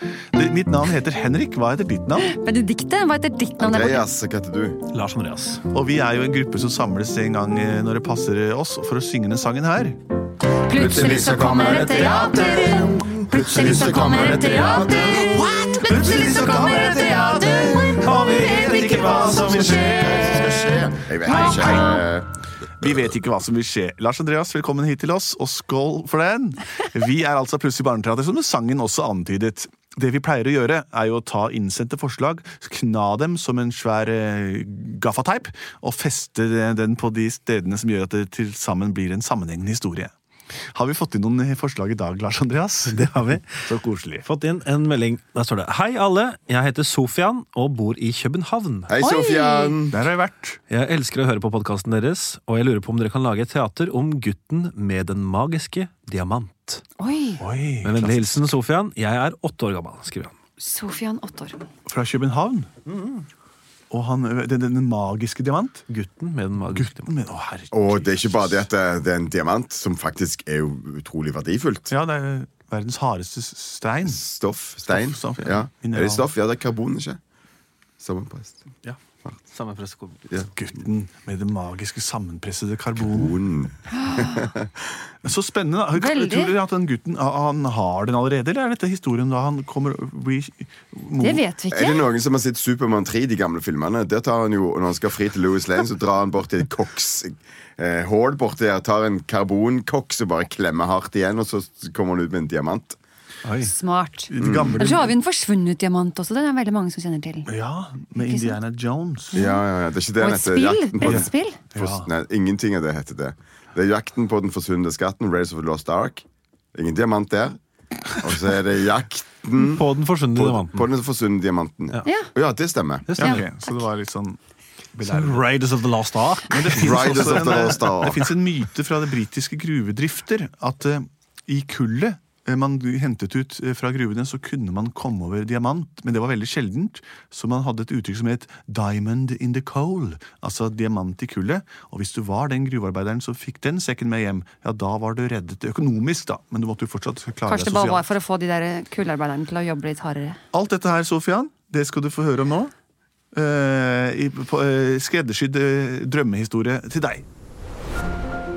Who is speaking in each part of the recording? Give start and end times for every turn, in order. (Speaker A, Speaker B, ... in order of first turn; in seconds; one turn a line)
Speaker A: 0.3-2.3
Speaker B: 2.2-4.0
Speaker C: 3.6-4.8
Speaker D: 4.9-5.6
Speaker A: 5.7-10.0
Speaker B: 10.7-20.6
Speaker C: 10.7-15.5
Speaker A: 15.2-20.3
Speaker C: 19.7-22.3
Speaker A: 21.2-22.1
Speaker B: 21.2-22.1
Speaker A: 22.8-40.1
Speaker A: 40.7-44.3
Speaker D: 44.2-48.9
Speaker C: 48.9-50.0
Speaker B: 49.0-49.8
Speaker A: 49.9-50.6
Speaker D: 50.7-56.8
Speaker B: 57.0-57.4
Speaker A: 57.4-58.4
Speaker D: 57.8-60.4
Speaker B: 60.6-61.7
Speaker A: 61.9-62.7
Speaker C: 62.9-63.2
Speaker A: 63.9-65.9
Speaker D: 65.9-67.1
Speaker A: 66.7-68.7
Speaker C: 67.7-71.9
Speaker A: 71.9-74.2
Speaker C: 74.0-77.2
Speaker A: 74.9-76.3
Speaker C: 78.0-78.6
Speaker D: 78.9-80.3
Speaker A: 80.5-83.3
Speaker C: 83.1-84.8
Speaker B: 83.9-84.4
Speaker A: 85.2-91.4
Speaker B: 86.0-86.5
Speaker B: 91.2-92.1
Speaker C: 91.7-103.0
Speaker B: 103.6-107.5
Speaker A: 104.3-105.2
Speaker C: 104.4-104.9
Speaker A: 107.5-109.4
Speaker B: 108.2-108.6
Speaker B: 109.3-109.6
Speaker C: 109.3-116.2
Speaker B: 110.2-111.6
Speaker A: 111.0-112.1
Speaker C: 116.8-123.1
Speaker D: 119.7-120.8
Speaker D: 123.1-123.3
Speaker A: 123.2-124.4
Speaker B: 123.2-123.4
Speaker A: 124.9-125.5
Speaker D: 125.0-127.2
Speaker A: 126.5-148.1
Speaker C: 126.7-128.3
Speaker B: 147.5-150.4
Speaker A: 150.5-152.7
Speaker A: 153.3-157.3